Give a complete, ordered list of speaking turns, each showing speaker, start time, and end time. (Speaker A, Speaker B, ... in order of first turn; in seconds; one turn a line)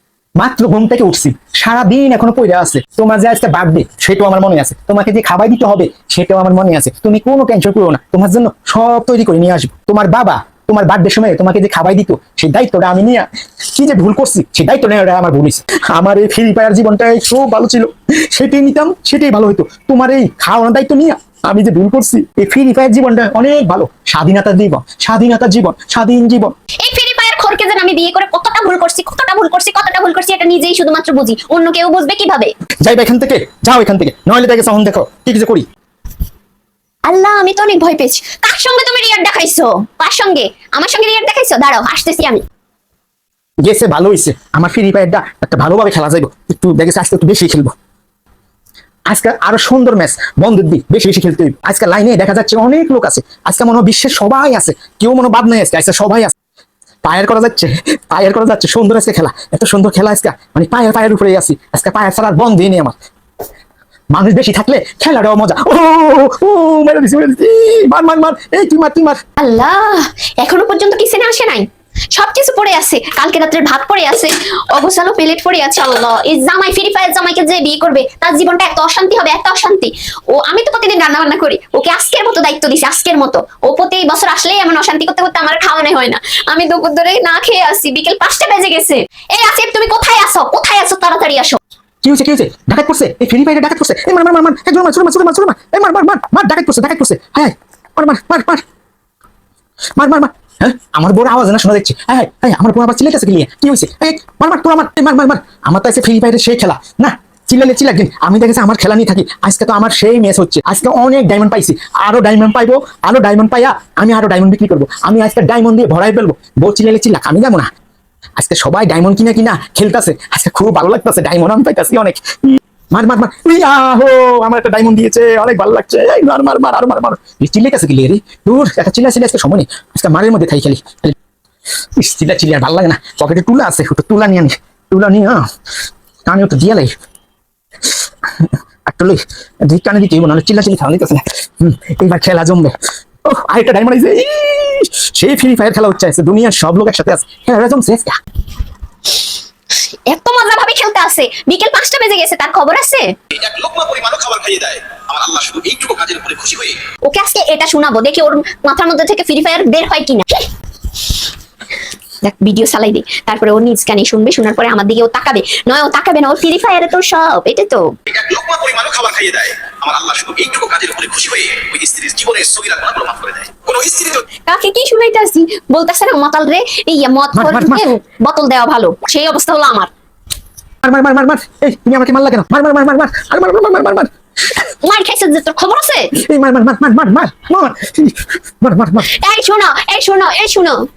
Speaker A: 0.4-26.5
Speaker B: 26.8-32.5
Speaker A: 32.8-35.7
Speaker B: 37.1-42.4
Speaker A: 43.6-47.7
Speaker A: 49.1-56.4
Speaker A: 57.0-63.0
Speaker A: 64.1-69.2
Speaker B: 69.4-91.6
Speaker A: 92.0-98.6
Speaker A: 100.0-117.7
Speaker A: 118.4-131.2
Speaker A: 132.0-135.5
Speaker A: 136.2-136.9
Speaker A: 137.8-148.2
Speaker B: 149.8-153.1
Speaker C: 153.3-156.8
Speaker B: 157.0-160.5
Speaker B: 162.2-167.9
Speaker C: 168.1-174.3
Speaker B: 174.4-179.9
Speaker A: 177.3-177.8
Speaker A: 180.8-184.1
Speaker B: 184.7-186.1
Speaker A: 186.2-189.1
Speaker B: 189.1-190.9